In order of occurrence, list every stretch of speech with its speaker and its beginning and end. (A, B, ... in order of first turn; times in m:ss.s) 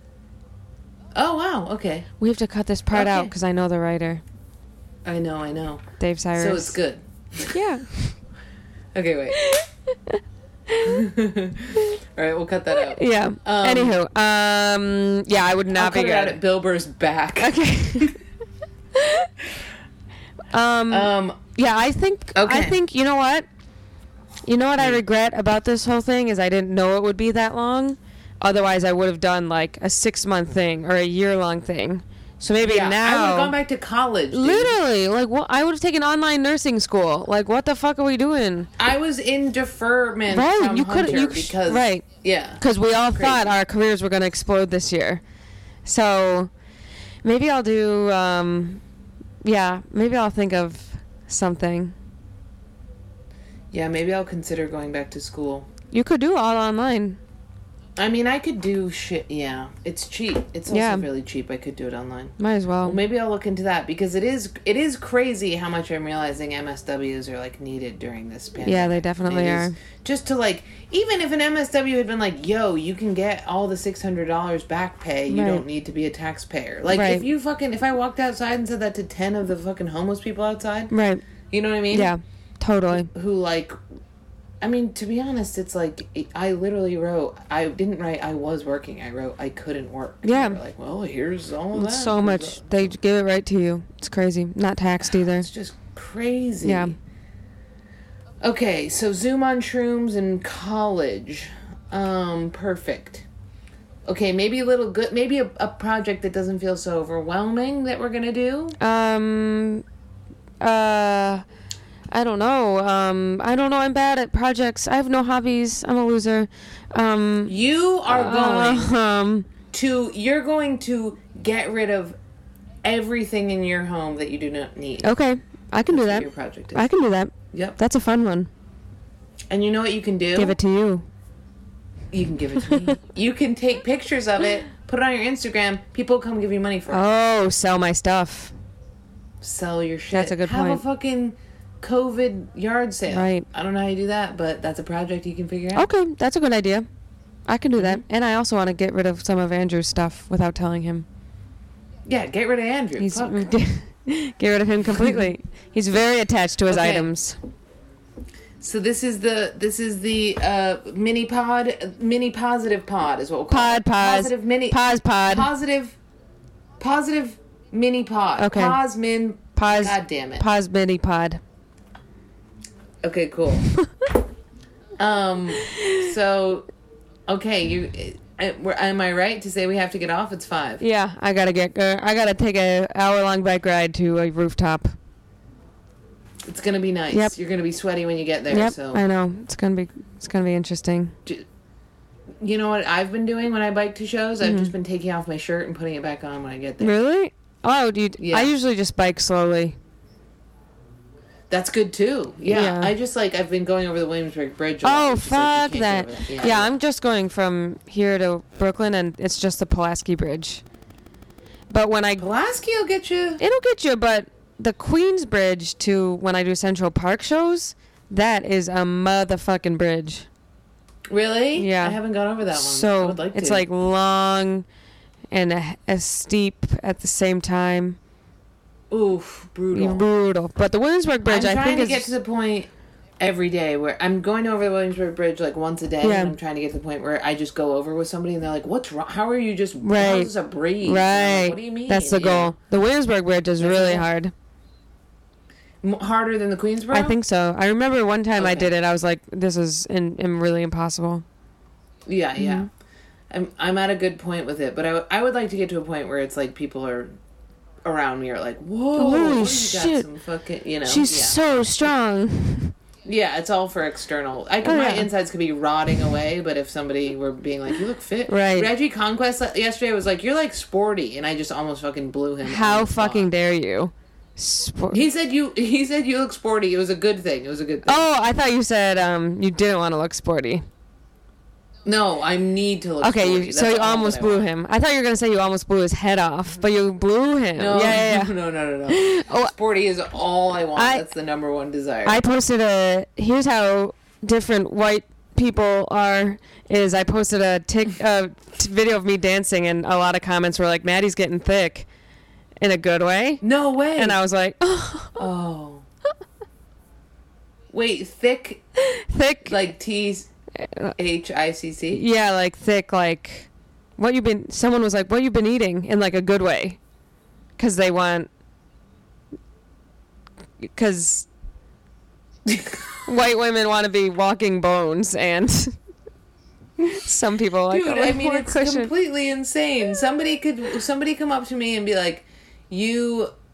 0:01.1-0:02.1 A
0:02.2-0:04.2 B
0:02.9-0:03.3 A
0:05.0-0:07.5 A
0:06.0-0:06.8 B
0:07.5-0:08.1 B
0:08.9-0:09.4 A
0:09.4-0:11.0 B
0:10.8-0:14.0 A
0:12.7-0:16.4 B
0:15.7-0:18.1 A
0:17.4-0:18.2 B
0:18.9-0:19.3 B
0:20.5-0:23.5 B
0:20.9-0:21.4 A
0:22.3-0:22.8 A
0:24.4-0:33.5 B
0:32.6-0:34.8 A
0:34.3-0:38.7 B
0:38.8-0:43.5 A
0:40.3-0:42.0 B
0:42.6-0:45.2 B
0:45.8-0:46.5 B
0:47.2-0:48.8 B
0:49.4-0:51.9 B
0:53.7-0:55.7 A
0:55.9-0:57.2 B
0:58.0-1:20.9 A
1:00.7-1:01.1 B
1:02.4-1:03.0 B
1:08.6-1:09.8 B
1:15.3-1:15.6 B
1:16.9-1:17.3 B
1:20.9-1:21.2 B
1:21.5-1:22.1 A
1:21.9-1:23.1 B
1:22.9-1:23.8 A
1:24.6-1:32.8 A
1:30.2-1:30.6 B
1:31.7-1:35.5 B
1:35.0-1:37.0 A
1:36.6-1:37.0 B
1:38.4-1:43.2 A
1:44.1-1:48.8 A
1:48.8-1:49.8 B
1:50.6-1:51.4 B
1:52.1-1:57.5 B
1:57.5-1:58.9 A
1:58.0-1:59.5 B
1:59.7-2:02.2 A
2:02.8-2:05.1 A
2:05.0-2:08.5 B
2:05.9-2:06.9 A
2:07.5-2:07.8 A
2:09.5-2:10.6 A
2:10.4-2:11.0 B
2:12.1-2:17.0 A
2:12.6-2:13.0 B
2:16.9-2:18.5 B
2:19.4-2:25.9 A
2:20.1-2:20.8 B
2:23.1-2:23.4 B
2:25.7-2:26.9 B
2:27.5-2:31.0 B
2:27.8-2:28.0 A
2:32.0-2:33.5 A
2:33.0-2:37.4 B
2:34.9-2:35.3 A
2:36.7-2:37.1 A
2:38.6-2:46.0 A
2:43.5-2:45.5 B
2:46.8-2:50.4 A
2:48.4-2:48.8 B
2:49.6-2:51.4 B
2:53.0-2:53.7 A
2:53.8-2:54.0 B
2:55.0-2:56.7 A
2:57.3-3:00.8 A
3:00.8-3:04.9 B
3:06.4-3:09.0 A
3:08.5-3:11.1 B
3:12.4-3:16.9 A
3:14.4-3:14.7 B
3:16.8-3:19.8 B
3:18.2-3:18.5 A
3:21.5-3:26.8 A
3:22.5-3:22.9 B
3:24.8-3:30.6 B
3:31.7-3:32.3 B
3:32.2-3:33.4 A
3:33.4-3:40.3 B
3:41.1-3:43.6 A
3:41.6-3:42.0 B
3:42.5-3:44.7 B
3:45.3-3:48.0 B
3:48.9-3:50.1 A
3:49.7-3:52.1 B
3:51.2-3:52.7 A
3:53.2-4:02.6 A
3:56.0-3:56.4 B
3:59.8-4:04.3 B
4:03.6-4:04.1 A
4:05.8-4:07.2 A
4:06.9-4:11.2 B
4:08.4-4:08.7 A
4:12.1-4:12.7 A
4:12.4-4:12.7 B
4:13.3-4:17.2 A
4:17.8-4:21.7 A
4:19.0-4:20.1 B
4:20.8-4:22.7 B
4:23.0-4:33.3 A
4:24.6-4:25.1 B
4:28.3-4:28.7 B
4:32.4-4:35.0 B
4:34.9-4:38.0 A
4:37.8-4:40.6 B
4:41.8-4:44.4 A
4:43.0-4:48.3 B
4:47.6-4:52.2 A
4:48.9-4:49.5 B
4:50.7-4:51.0 B
4:52.0-5:01.9 B
5:02.6-5:03.4 B
5:03.4-5:04.2 A
5:04.0-5:05.2 B
5:05.2-5:05.8 A
5:07.7-5:08.6 A
5:08.8-5:09.6 B
5:09.4-5:10.3 A
5:10.6-5:10.9 B
5:11.0-5:12.0 A
5:11.9-5:16.8 B
5:17.6-5:18.3 B
5:20.6-5:21.3 B
5:23.0-5:25.8 B
5:26.8-5:28.9 B
5:27.7-5:33.3 A